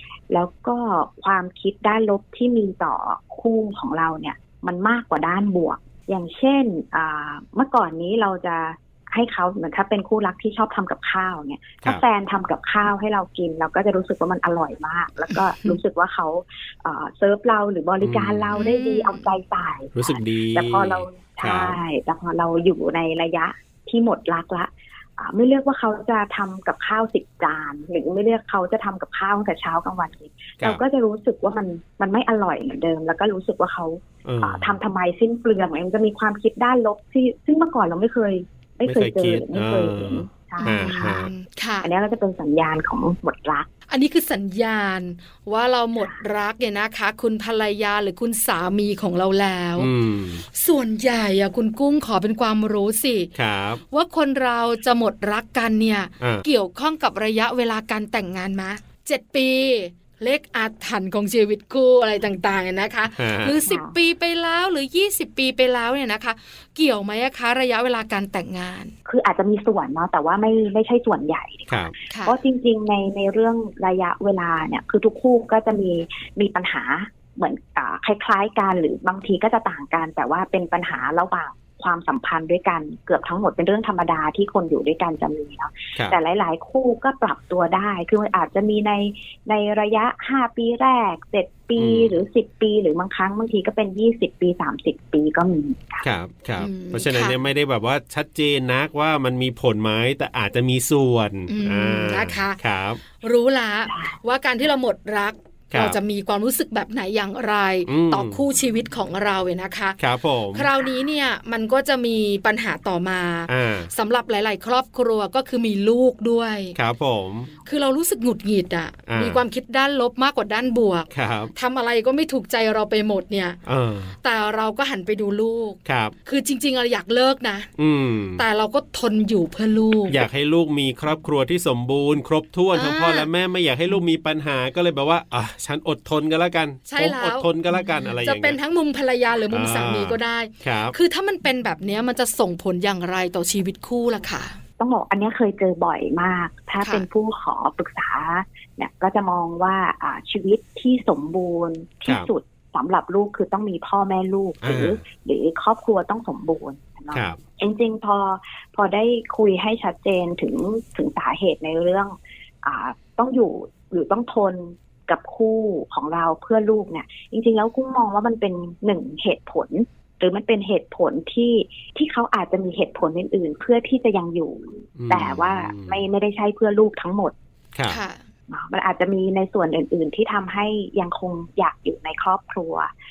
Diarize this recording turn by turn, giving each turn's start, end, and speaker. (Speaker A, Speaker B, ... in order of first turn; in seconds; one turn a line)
Speaker A: 0.3-41.1
Speaker B: 15.3-15.8
Speaker C: 18.0-18.5
Speaker B: 18.5-19.3
Speaker C: 19.9-21.8
Speaker C: 34.2-34.8
Speaker C: 38.9-41.3
Speaker B: 40.6-41.9
Speaker A: 41.8-43.7
Speaker B: 43.9-49.9
Speaker C: 49.8-50.4
Speaker B: 50.5-53.3
Speaker C: 53.3-53.8
Speaker B: 53.9-68.9
Speaker C: 56.2-56.4
Speaker C: 63.1-63.6
Speaker A: 63.6-63.9
Speaker A: 69.1-96.1
Speaker C: 71.7-71.9
Speaker B: 72.1-72.4
Speaker C: 91.8-92.2
Speaker C: 96.0-103.0
Speaker B: 96.6-97.3
Speaker B: 101.5-102.6
Speaker B: 103.2-110.0
Speaker A: 103.9-104.2
Speaker C: 105.7-106.0
Speaker C: 107.9-108.4
Speaker C: 110.0-110.7
Speaker B: 110.5-116.8
Speaker C: 113.5-113.9
Speaker C: 116.8-117.5
Speaker B: 117.6-123.6
Speaker C: 119.1-119.4
Speaker C: 121.1-121.5
Speaker C: 123.7-124.1
Speaker B: 124.2-127.7
Speaker C: 125.8-126.1
Speaker C: 127.8-128.4
Speaker B: 128.4-130.2
Speaker C: 130.1-138.6
Speaker B: 132.7-133.3
Speaker B: 136.9-144.6
Speaker C: 139.5-140.9
Speaker A: 144.8-177.3
Speaker B: 146.8-147.1
Speaker C: 154.6-155.0
Speaker C: 157.1-157.4
Speaker C: 175.0-176.0
Speaker C: 177.8-178.0
Speaker B: 177.9-178.2
Speaker A: 178.5-182.9